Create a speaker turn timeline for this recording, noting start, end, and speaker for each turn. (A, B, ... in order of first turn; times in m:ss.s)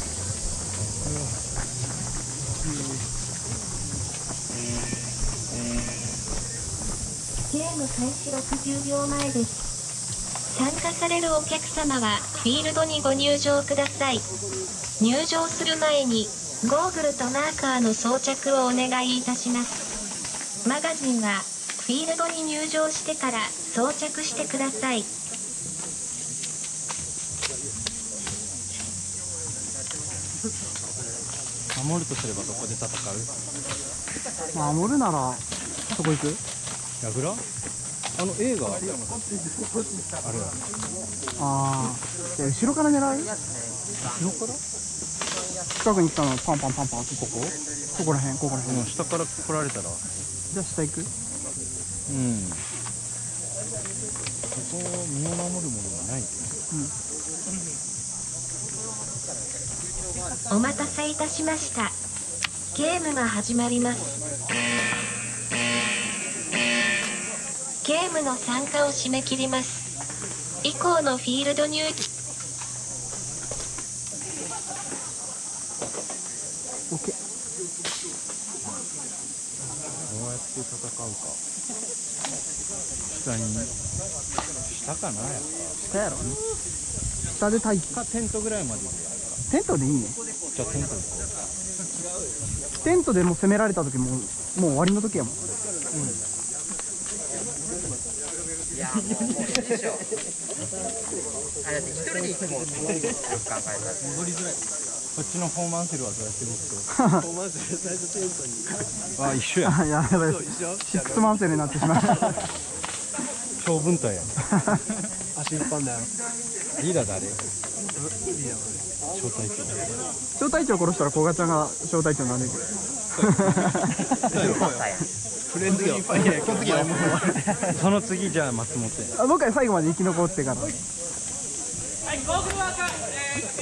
0:07.5-0:09.7 A
0:10.5-0:14.2 A
0:15.0-0:19.8 A
0:20.6-0:25.1 A
0:31.7-0:33.4 B
0:34.5-0:36.4 C
0:37.0-0:37.4 B
0:38.2-0:39.2 B
0:40.2-0:40.6 B
0:41.4-0:43.3 C
0:43.2-0:44.2 D
0:44.1-0:44.6 C
0:45.8-0:48.9 C
0:48.6-0:50.0 B
0:50.5-0:51.1 C
0:52.1-0:52.6 B
0:54.5-0:56.6 B
1:00.5-1:02.0 A
1:02.7-1:04.1 A
1:07.8-1:09.9 A
1:10.6-1:12.1 A
1:20.1-1:21.4 B
1:23.1-1:23.7 B
1:24.7-1:25.5 B
1:25.8-1:26.3 C
1:27.3-1:28.0 C
1:27.9-1:29.4 B
1:29.5-1:30.2 C
1:30.5-1:31.3 B
1:32.8-1:35.5 C
1:38.7-1:40.1 D
1:39.4-1:39.8 E
1:41.6-1:44.2 D
1:44.2-1:44.5 B
1:45.1-1:46.9 B
1:46.9-1:47.2 C
1:47.2-1:48.9 E
1:49.2-1:49.8 B
1:49.6-1:52.4 C
1:50.2-1:51.6 E
1:53.6-1:54.4 B
1:55.4-1:56.1 E
1:56.8-1:57.4 B
1:58.0-1:58.8 E
1:59.1-1:59.9 B
2:00.4-2:02.7 C
2:03.1-2:04.9 B
2:03.2-2:04.0 C
2:04.1-2:04.6 E
2:04.3-2:05.1 D
2:05.5-2:07.8 E
2:05.7-2:06.9 B
2:06.5-2:06.9 D
2:07.7-2:09.1 B
2:09.1-2:10.8 C